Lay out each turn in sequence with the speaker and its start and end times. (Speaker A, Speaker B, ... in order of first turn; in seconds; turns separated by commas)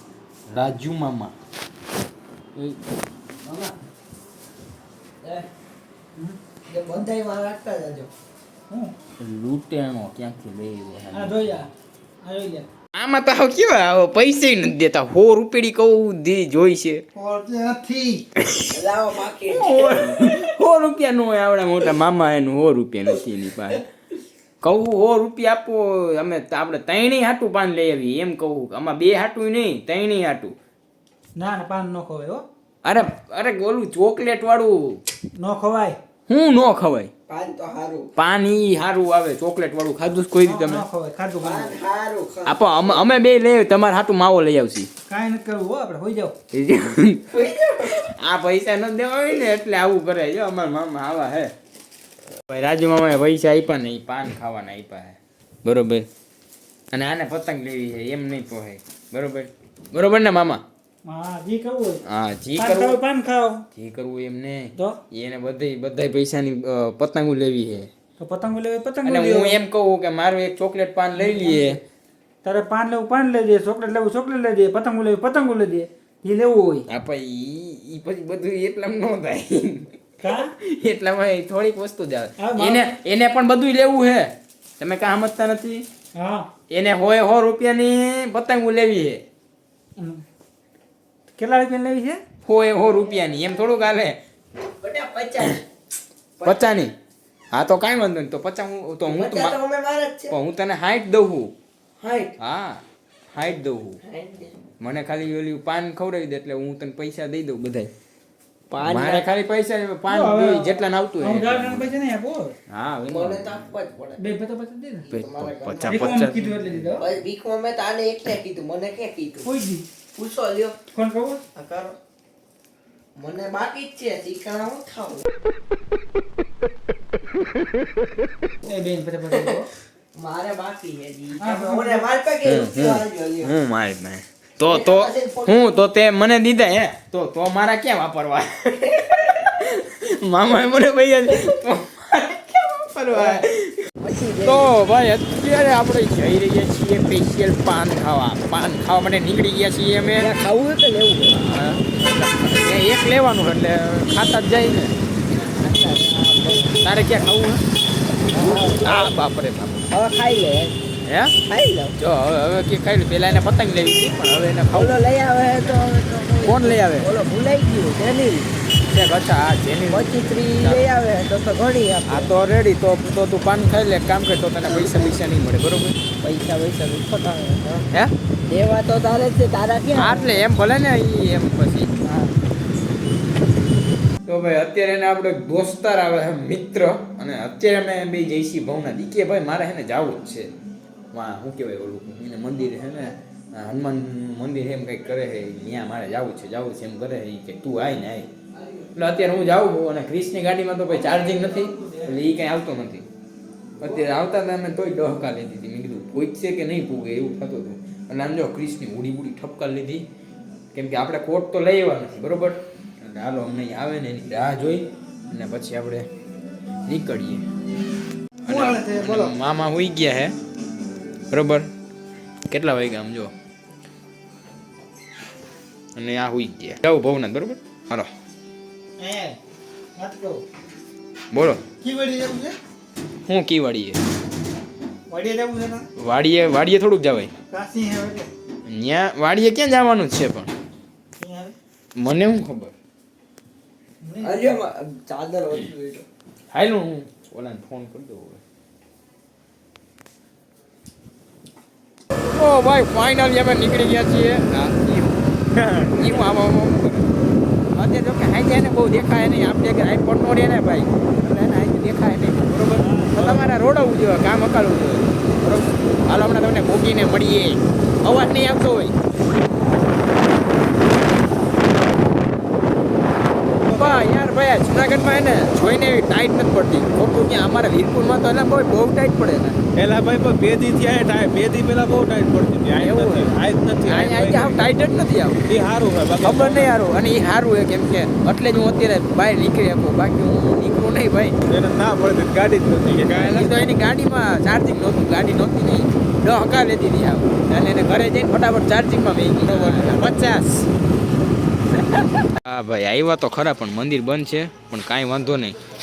Speaker A: 0.5-1.3, Speaker B: 3.4-3.7, Speaker B: 6.7-8.1, Speaker C: 8.7-8.9, Speaker A: 9.2-11.6, Speaker C: 11.1-11.7, Speaker C: 12.2-12.7, Speaker A: 12.9-17.0, Speaker C: 17.1-18.2, Speaker A: 18.4-18.7, Speaker B: 18.7-20.4, Speaker A: 19.5-23.8, Speaker A: 24.6-30.6, Speaker C: 31.4-32.4, Speaker A: 32.8-35.0, Speaker C: 35.4-36.0, Speaker A: 36.3-37.1, Speaker B: 37.3-38.1, Speaker A: 38.1-40.8, Speaker C: 40.4-41.8, Speaker B: 41.4-43.0, Speaker A: 42.5-44.9, Speaker C: 45.1-46.3, Speaker A: 46.5-51.5, Speaker B: 47.4-47.7, Speaker A: 52.5-56.1, Speaker A: 56.9-60.6, Speaker C: 61.0-62.0, Speaker A: 62.0-63.0, Speaker C: 62.5-63.6, Speaker A: 63.7-67.9, Speaker C: 68.2-69.6, Speaker A: 69.0-71.8, Speaker C: 71.2-71.8, Speaker C: 72.4-76.8, Speaker A: 76.9-85.8, Speaker C: 80.2-80.5, Speaker C: 82.4-82.8, Speaker C: 86.2-86.5, Speaker A: 86.7-89.2, Speaker C: 90.0-90.2, Speaker C: 91.4-92.2, Speaker A: 92.4-94.2, Speaker B: 94.8-95.6, Speaker B: 96.4-96.8, Speaker A: 96.4-96.9, Speaker A: 97.5-99.6, Speaker B: 99.0-100.4, Speaker A: 100.3-101.5, Speaker B: 102.0-102.3, Speaker A: 102.4-104.0, Speaker B: 104.0-104.5, Speaker A: 104.8-107.9, Speaker B: 108.7-109.3, Speaker A: 108.8-111.9, Speaker C: 110.1-112.5, Speaker A: 112.7-113.7, Speaker B: 113.1-114.2, Speaker C: 114.2-115.1, Speaker B: 115.0-116.2, Speaker A: 115.1-116.9, Speaker C: 115.8-117.0, Speaker B: 117.0-119.5, Speaker C: 119.4-119.8, Speaker B: 120.2-120.8, Speaker C: 120.9-121.4, Speaker B: 121.5-122.0, Speaker B: 123.2-125.2, Speaker C: 128.6-129.7, Speaker B: 129.3-129.6, Speaker B: 130.1-133.5, Speaker C: 131.4-132.0, Speaker A: 132.4-150.3, Speaker B: 134.6-135.8, Speaker B: 143.1-143.5, Speaker B: 144.0-144.7, Speaker B: 150.2-151.8, Speaker A: 151.3-154.9, Speaker B: 155.3-156.9, Speaker A: 156.8-157.6, Speaker B: 158.3-159.1, Speaker A: 158.3-159.9, Speaker B: 159.9-160.7, Speaker A: 161.0-161.4, Speaker B: 161.4-161.9, Speaker A: 162.0-165.0, Speaker B: 164.7-168.5, Speaker A: 166.4-167.1, Speaker A: 168.9-170.8, Speaker B: 169.9-172.3, Speaker A: 172.1-176.0, Speaker B: 174.6-175.2, Speaker B: 176.2-177.8, Speaker B: 178.5-180.6, Speaker A: 179.9-182.0, Speaker B: 182.0-182.3, Speaker A: 184.2-190.5, Speaker A: 191.1-198.3, Speaker A: 198.9-203.1, Speaker A: 203.8-210.1, Speaker A: 210.7-216.1, Speaker A: 216.8-217.4, Speaker A: 218.4-220.3, Speaker C: 218.5-219.3, Speaker A: 221.3-221.7, Speaker A: 222.5-223.3, Speaker A: 225.9-228.1, Speaker C: 229.0-229.4, Speaker C: 229.9-230.4, Speaker A: 231.3-231.6, Speaker C: 231.8-232.6, Speaker A: 233.3-234.0, Speaker C: 235.1-235.8, Speaker A: 236.0-237.3, Speaker C: 237.5-238.3, Speaker A: 238.7-240.5, Speaker C: 241.2-241.5, Speaker A: 242.0-242.7, Speaker C: 244.0-244.6, Speaker B: 244.2-246.1, Speaker A: 246.5-248.4, Speaker A: 252.3-255.2, Speaker D: 255.5-256.3, Speaker A: 255.9-257.1, Speaker A: 257.7-268.9, Speaker D: 262.7-263.5, Speaker D: 273.6-274.1, Speaker A: 273.7-279.6, Speaker D: 279.8-284.6, Speaker A: 282.7-283.3, Speaker A: 283.8-285.5, Speaker D: 285.4-286.7, Speaker A: 286.2-291.4, Speaker D: 291.4-293.6, Speaker A: 293.0-300.7, Speaker D: 299.4-300.4, Speaker A: 302.3-305.6